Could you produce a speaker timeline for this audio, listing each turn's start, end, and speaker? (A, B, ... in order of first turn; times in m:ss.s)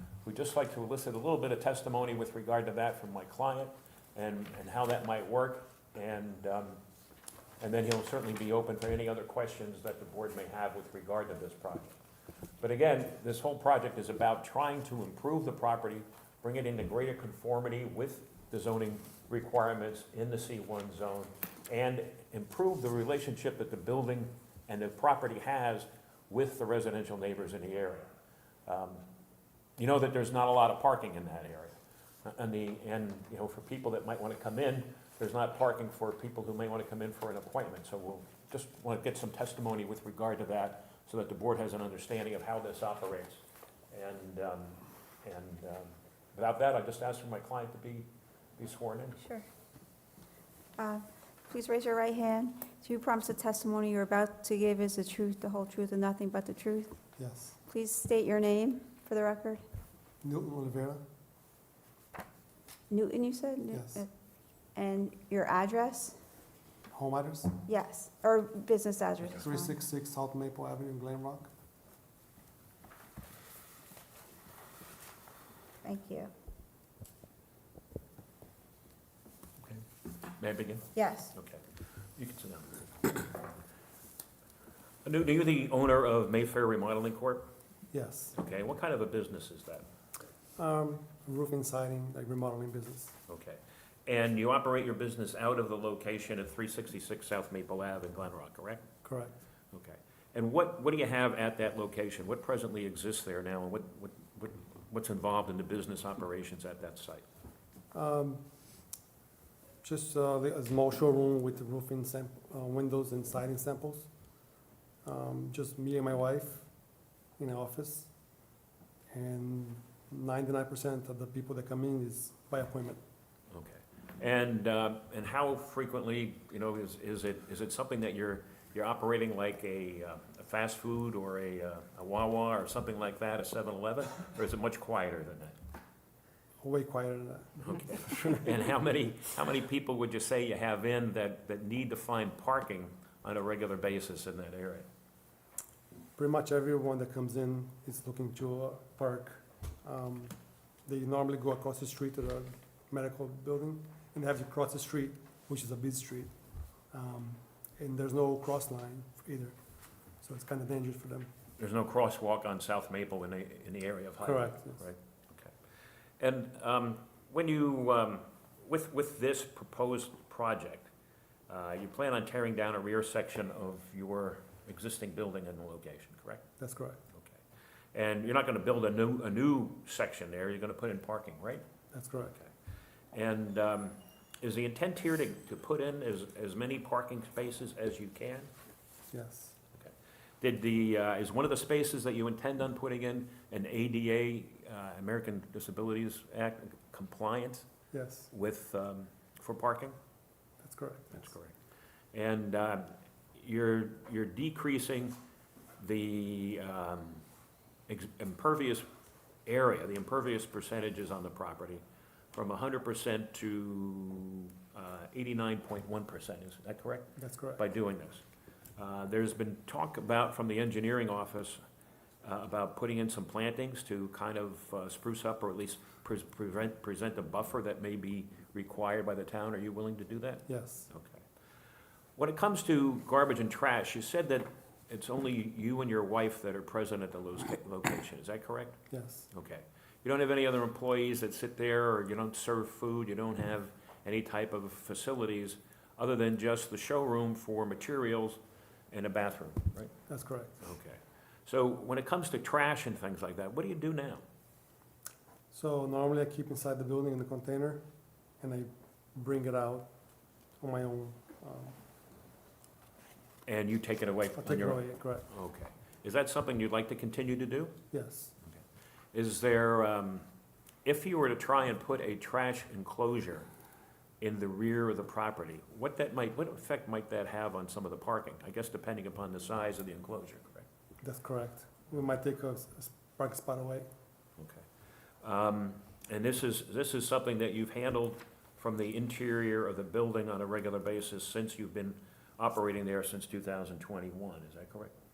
0:00.2-0:06.8 A
0:07.6-0:11.9 A
0:12.6-0:28.1 A
0:28.6-0:29.0 A
0:29.8-0:49.2 A
0:49.2-0:49.4 B
0:50.8-0:56.9 B
0:57.2-0:57.6 C
0:57.7-0:59.6 B
1:00.2-1:01.0 C
1:02.9-1:04.1 B
1:03.7-1:04.0 C
1:04.7-1:06.2 B
1:06.9-1:07.5 C
1:07.7-1:09.7 B
1:09.4-1:11.5 C
1:15.8-1:16.3 B
1:20.4-1:21.6 A
1:20.9-1:21.3 B
1:22.2-1:23.3 A
1:25.0-1:27.4 A
1:27.9-1:28.3 C
1:28.3-1:29.8 A
1:30.6-1:33.2 C
1:33.3-1:38.8 A
1:39.0-1:39.3 C
1:39.7-1:47.2 A
1:47.9-1:48.4 C
1:49.8-1:54.1 C
1:55.0-1:56.7 C
1:57.4-1:58.1 C
1:59.1-2:03.0 C
2:03.5-2:15.6 A
2:16.6-2:18.5 C
2:17.6-2:24.8 A
2:26.2-2:30.3 C
2:30.8-2:36.3 C
2:36.9-2:39.5 C
2:40.2-2:41.3 C
2:41.6-2:45.5 A
2:44.2-2:44.8 C
2:46.2-2:50.9 A
2:51.5-2:56.4 A
2:56.6-2:57.0 C
2:57.1-2:57.4 A
2:57.9-3:01.6 A
3:01.9-3:02.4 C
3:03.1-3:08.5 A
3:09.1-3:09.6 C
3:09.7-3:17.6 A
3:17.9-3:18.3 C
3:18.3-3:20.0 A
3:20.6-3:21.3 C
3:21.2-3:21.5 A
3:22.1-3:25.1 A
3:25.8-3:27.2 A
3:27.9-3:28.8 A
3:29.4-3:38.2 A
3:37.2-3:37.6 C
3:38.8-3:41.6 A
3:42.2-3:51.2 A
3:50.5-3:50.9 C
3:52.2-3:58.8 A
3:58.9-3:59.3 C
3:59.3-4:08.4 A
4:08.9-4:09.9 A
4:10.1-4:10.6 C
4:10.6-4:14.2 A
4:15.5-4:17.8 C
4:18.4-4:19.9 C
4:20.6-4:21.8 C
4:23.4-4:27.7 A
4:24.4-4:25.2 C
4:27.9-4:28.3 C
4:29.1-4:30.2 A
4:30.8-4:33.5 A
4:34.2-4:40.6 A
4:41.0-4:43.8 C
4:44.4-4:44.6 A
4:45.2-4:54.9 A